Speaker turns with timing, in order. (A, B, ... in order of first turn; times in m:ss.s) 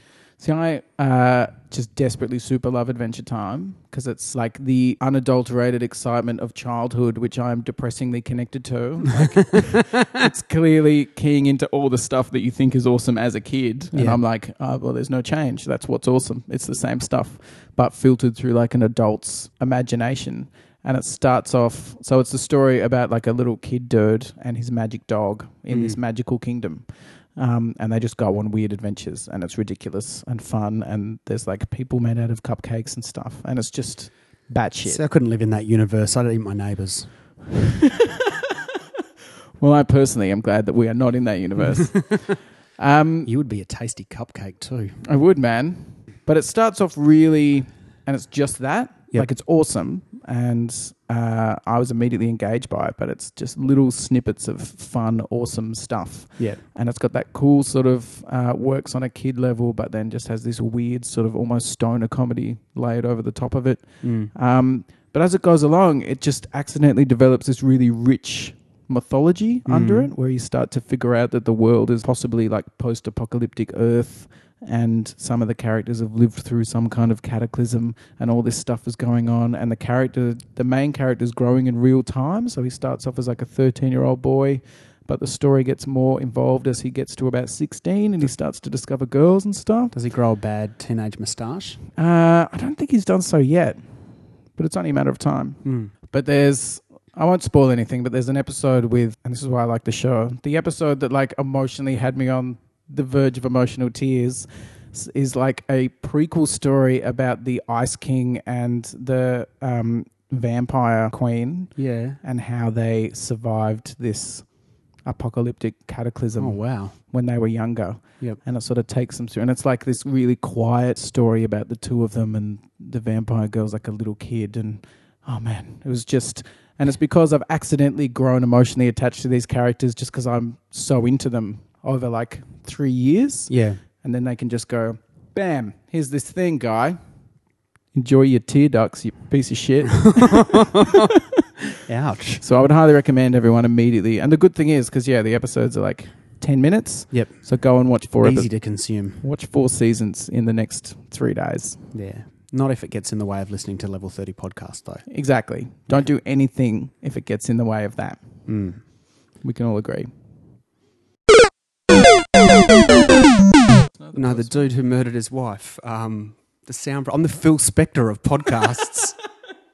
0:00.4-0:35.0 A
0:09.2-0:09.8 B
0:13.9-0:14.2 B
0:25.7-0:26.0 B
0:34.9-0:37.1 B
0:37.6-0:38.5 A
0:39.6-0:42.2 A
0:42.8-0:43.3 A
0:43.3-0:45.0 B
0:45.0-1:29.9 A
1:04.0-1:04.3 B
1:09.7-1:10.1 B
1:29.9-1:31.8 B
1:32.0-1:33.8 A
1:34.6-1:54.5 A
1:35.6-1:35.9 B
1:51.8-1:52.2 B
1:55.1-2:13.5 A
1:56.4-1:56.9 B
2:13.5-2:13.8 B
2:14.0-2:17.0 A
2:18.0-2:21.4 A
2:19.9-2:21.1 B
2:21.8-2:22.4 B
2:22.4-2:28.5 A
2:28.2-2:29.2 B
2:29.2-2:31.8 A
2:31.9-2:35.0 B
2:35.1-2:38.2 A
2:38.5-2:38.8 B
2:39.4-2:40.1 A
2:43.9-2:44.6 A
2:44.2-2:49.2 B